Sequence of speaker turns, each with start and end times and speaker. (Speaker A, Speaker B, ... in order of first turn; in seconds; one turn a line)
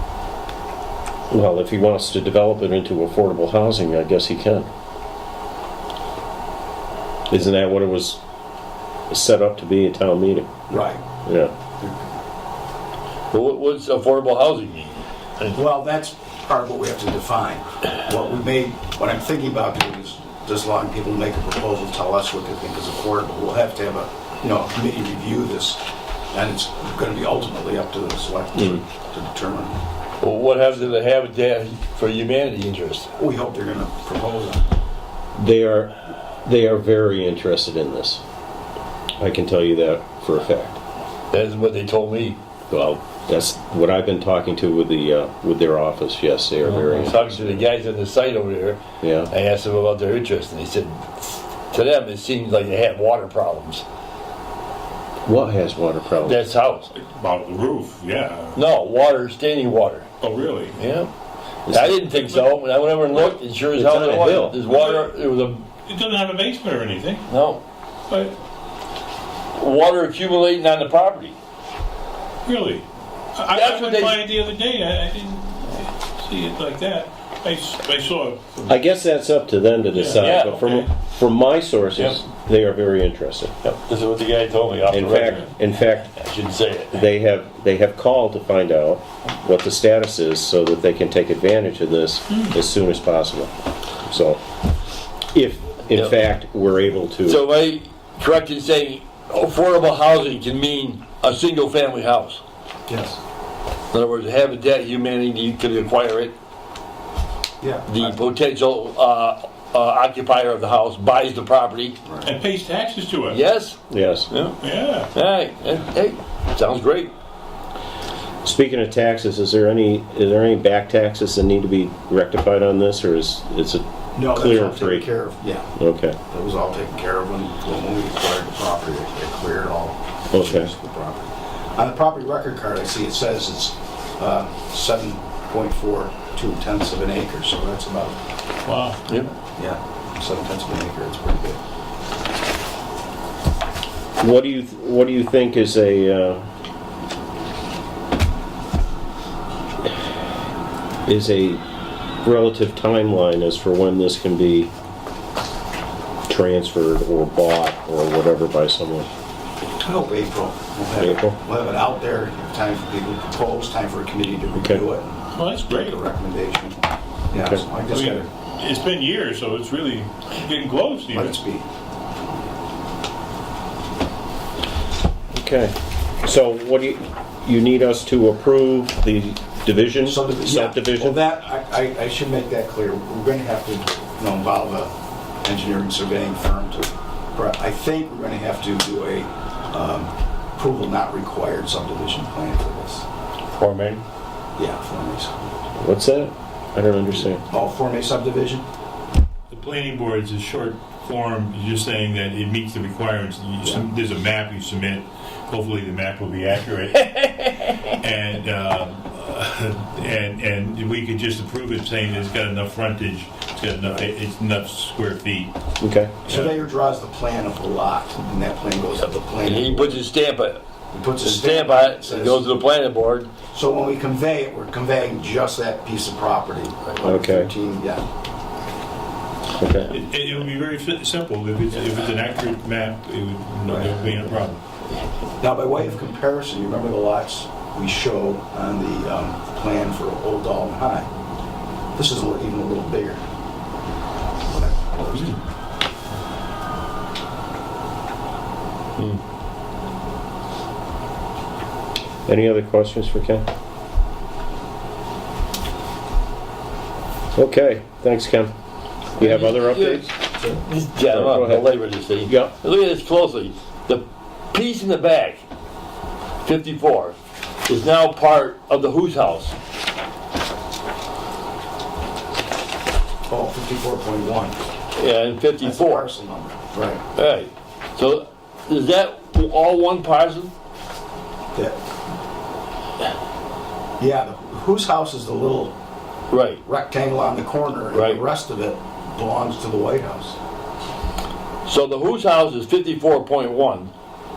Speaker A: 1.3-4.7
Speaker A: 7.3-8.2
Speaker A: 9.1-10.5
Speaker B: 10.7-11.0
Speaker A: 11.2-11.5
Speaker B: 11.8-12.1
Speaker C: 13.3-15.6
Speaker B: 15.5-25.8
Speaker B: 26.3-29.8
Speaker A: 28.6-28.8
Speaker C: 30.2-33.1
Speaker B: 33.2-34.6
Speaker A: 35.4-38.2
Speaker A: 39.2-40.8
Speaker C: 41.3-42.4
Speaker A: 42.7-47.6
Speaker C: 46.7-53.8
Speaker A: 49.0-49.3
Speaker A: 55.2-56.4
Speaker C: 56.2-56.9
Speaker D: 57.0-58.6
Speaker C: 58.5-60.1
Speaker D: 60.2-60.8
Speaker C: 60.8-61.1
Speaker A: 61.7-62.0
Speaker C: 61.7-65.7
Speaker D: 62.1-62.5
Speaker A: 63.7-64.6
Speaker D: 64.7-65.1
Speaker D: 65.8-67.3
Speaker C: 67.3-67.6
Speaker D: 68.1-68.3
Speaker C: 69.5-71.4
Speaker D: 72.4-78.8
Speaker C: 73.5-74.3
Speaker A: 78.7-83.5
Speaker D: 79.9-80.9
Speaker C: 80.2-80.7
Speaker C: 83.6-85.5
Speaker A: 84.9-86.1
Speaker C: 86.1-87.0
Speaker A: 86.9-93.5
Speaker D: 92.3-92.5
Speaker A: 94.0-94.4
Speaker A: 95.3-97.4
Speaker C: 97.3-102.4
Speaker B: 102.9-103.2
Speaker C: 103.9-106.3
Speaker B: 107.6-108.2
Speaker C: 107.9-112.0
Speaker D: 112.2-113.4
Speaker C: 113.3-114.6
Speaker A: 113.9-114.3
Speaker D: 114.6-115.1
Speaker C: 115.1-117.1
Speaker A: 118.4-125.1
Speaker B: 124.2-125.7
Speaker A: 125.8-126.2
Speaker B: 126.3-138.2
Speaker A: 130.3-130.7
Speaker D: 138.7-139.2
Speaker B: 139.6-141.6
Speaker A: 144.2-146.5
Speaker A: 151.1-151.6
Speaker A: 152.2-154.7
Speaker A: 156.3-159.1
Speaker B: 159.8-166.8
Speaker A: 161.0-161.4
Speaker D: 165.3-166.0
Speaker B: 167.3-168.3
Speaker D: 167.9-171.4
Speaker B: 171.1-171.7
Speaker A: 175.3-181.2
Speaker B: 180.1-184.9
Speaker B: 185.4-193.1
Speaker C: 193.5-194.0
Speaker B: 194.6-195.6
Speaker A: 195.8-197.4
Speaker B: 197.5-198.7
Speaker D: 199.5-215.5
Speaker A: 215.8-216.2
Speaker D: 216.2-216.6
Speaker B: 216.3-220.0
Speaker C: 219.4-220.6
Speaker B: 220.9-222.4
Speaker C: 221.2-223.3
Speaker B: 223.5-228.0
Speaker A: 227.0-227.5
Speaker A: 229.6-229.9
Speaker D: 229.9-234.6
Speaker B: 233.7-234.0
Speaker B: 235.4-241.1
Speaker B: 241.9-243.2
Speaker B: 244.5-245.4
Speaker A: 252.3-253.5
Speaker A: 257.4-258.5
Speaker A: 259.2-260.1
Speaker C: 259.2-265.4
Speaker A: 261.1-262.5
Speaker C: 266.4-267.1
Speaker C: 267.7-269.6
Speaker B: 273.3-274.6
Speaker C: 274.9-276.1
Speaker B: 275.6-277.0
Speaker C: 277.2-280.5
Speaker B: 281.5-281.8
Speaker B: 284.0-285.8
Speaker C: 286.3-286.6
Speaker B: 286.6-290.4
Speaker C: 287.9-288.2
Speaker C: 291.7-293.9